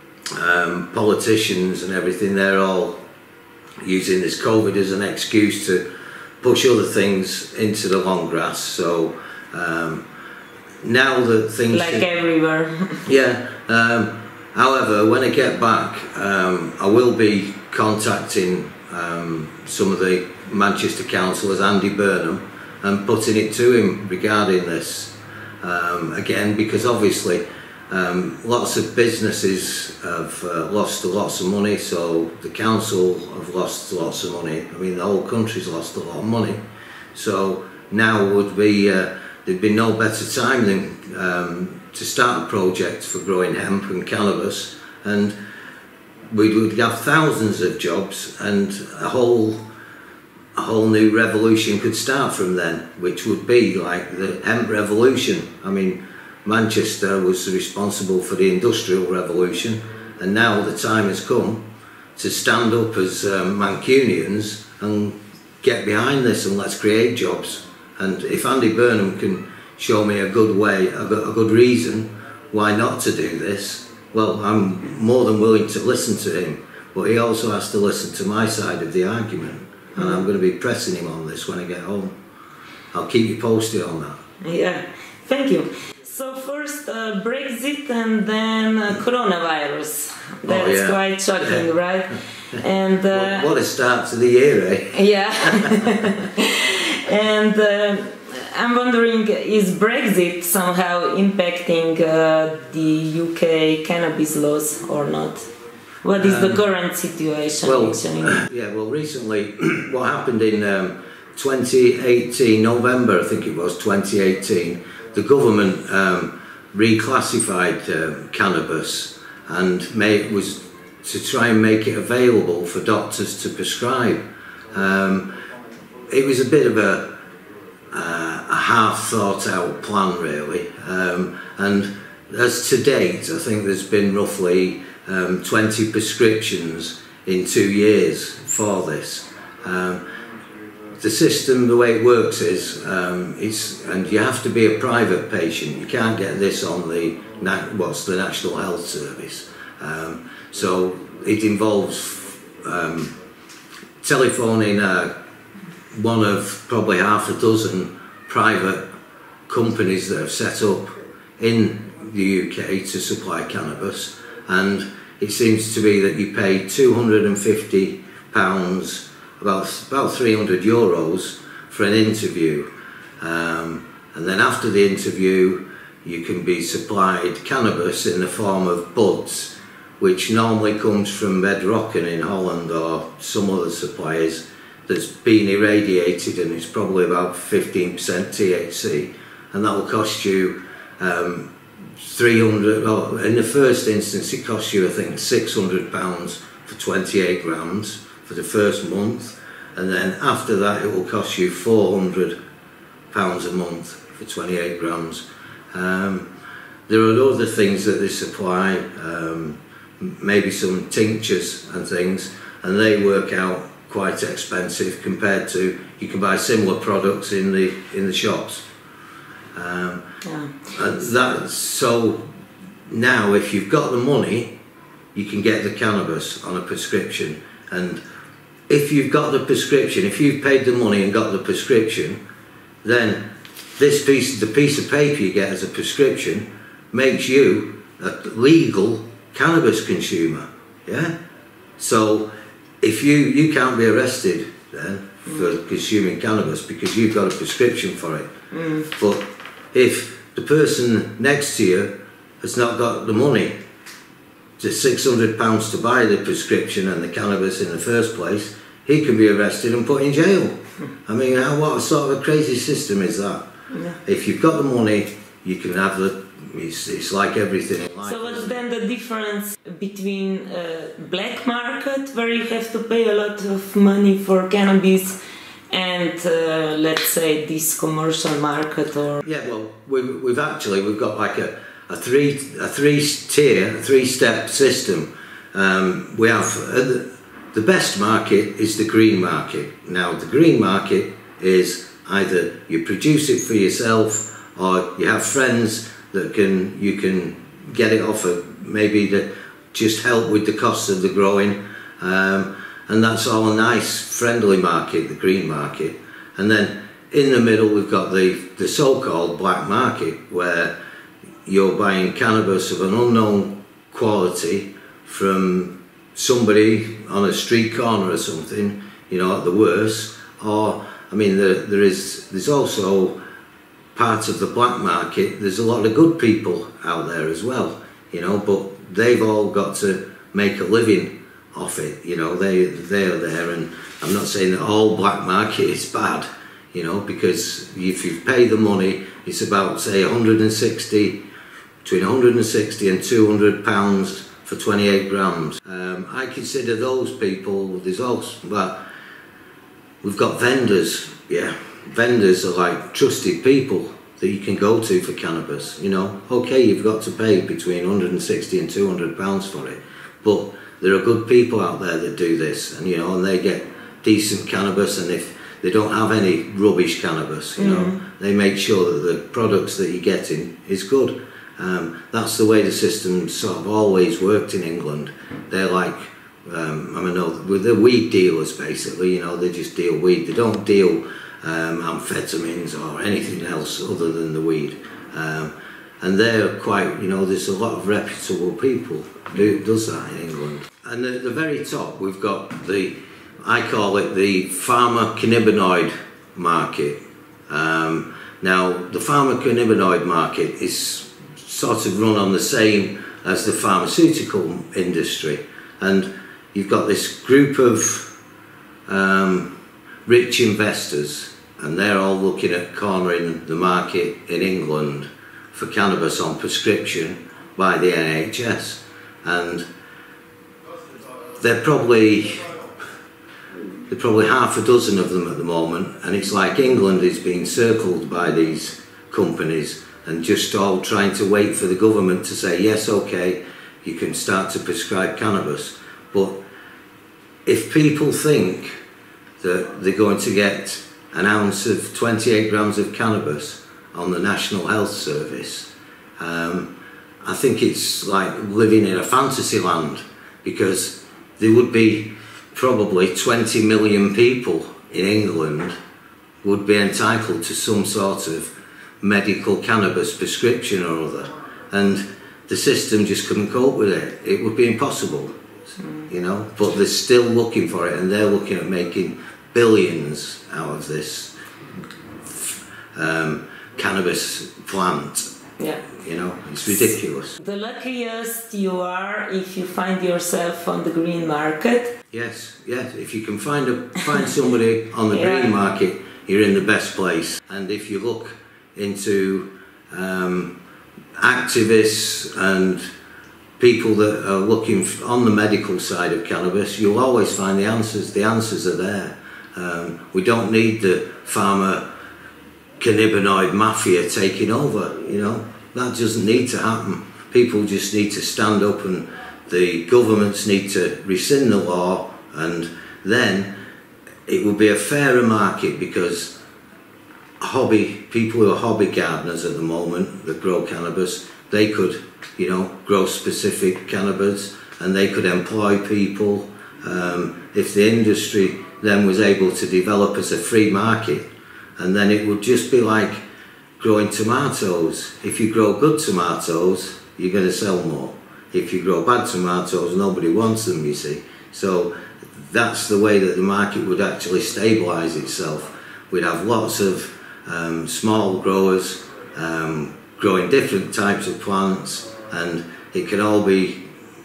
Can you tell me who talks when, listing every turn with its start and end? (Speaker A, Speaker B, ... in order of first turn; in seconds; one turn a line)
Speaker A: 0.3-3.0
Speaker A: 3.8-5.8
Speaker A: 6.4-10.1
Speaker A: 10.8-12.0
Speaker B: 11.7-13.1
Speaker A: 13.1-36.6
Speaker A: 37.1-45.4
Speaker A: 46.3-49.6
Speaker A: 50.5-61.6
Speaker A: 62.2-82.2
Speaker B: 80.0-80.2
Speaker A: 82.9-84.2
Speaker B: 84.4-93.5
Speaker A: 90.4-91.7
Speaker A: 93.1-95.9
Speaker B: 94.9-105.5
Speaker B: 106.0-108.4
Speaker A: 106.2-106.6
Speaker A: 107.6-125.3
Speaker A: 126.1-127.2
Speaker A: 127.9-140.0
Speaker A: 141.0-153.1
Speaker A: 154.0-155.2
Speaker A: 155.9-158.8
Speaker A: 159.5-172.7
Speaker A: 173.2-191.5
Speaker A: 192.0-202.3
Speaker A: 203.1-206.3
Speaker A: 206.9-218.7
Speaker A: 219.6-220.0
Speaker B: 220.2-220.7
Speaker A: 220.7-222.2
Speaker A: 222.9-224.5
Speaker A: 225.1-228.0
Speaker A: 228.7-232.2
Speaker A: 232.8-233.2
Speaker A: 233.8-241.1
Speaker A: 241.8-242.3
Speaker A: 242.8-248.3
Speaker B: 248.5-248.9
Speaker A: 248.8-253.5
Speaker A: 254.6-263.5
Speaker B: 263.7-264.0
Speaker A: 264.1-268.6
Speaker B: 268.0-275.2
Speaker B: 275.7-279.2
Speaker A: 279.2-310.7
Speaker A: 311.5-323.2
Speaker A: 323.9-341.2
Speaker A: 341.9-348.8
Speaker A: 350.0-408.1
Speaker B: 367.6-368.0
Speaker A: 408.9-409.5
Speaker A: 410.1-419.6
Speaker A: 421.4-422.6
Speaker A: 423.9-436.4
Speaker A: 437.4-438.8
Speaker A: 439.4-446.7
Speaker A: 447.2-455.8
Speaker A: 456.4-465.3
Speaker A: 466.1-471.3
Speaker A: 472.2-475.3
Speaker B: 475.6-475.8
Speaker A: 475.9-477.4
Speaker B: 477.4-481.9
Speaker A: 482.1-490.5
Speaker B: 485.1-485.6
Speaker A: 491.2-492.8
Speaker A: 493.6-501.9
Speaker A: 502.8-513.5
Speaker A: 514.3-516.4
Speaker A: 517.4-531.3
Speaker A: 531.8-533.2
Speaker A: 533.8-553.8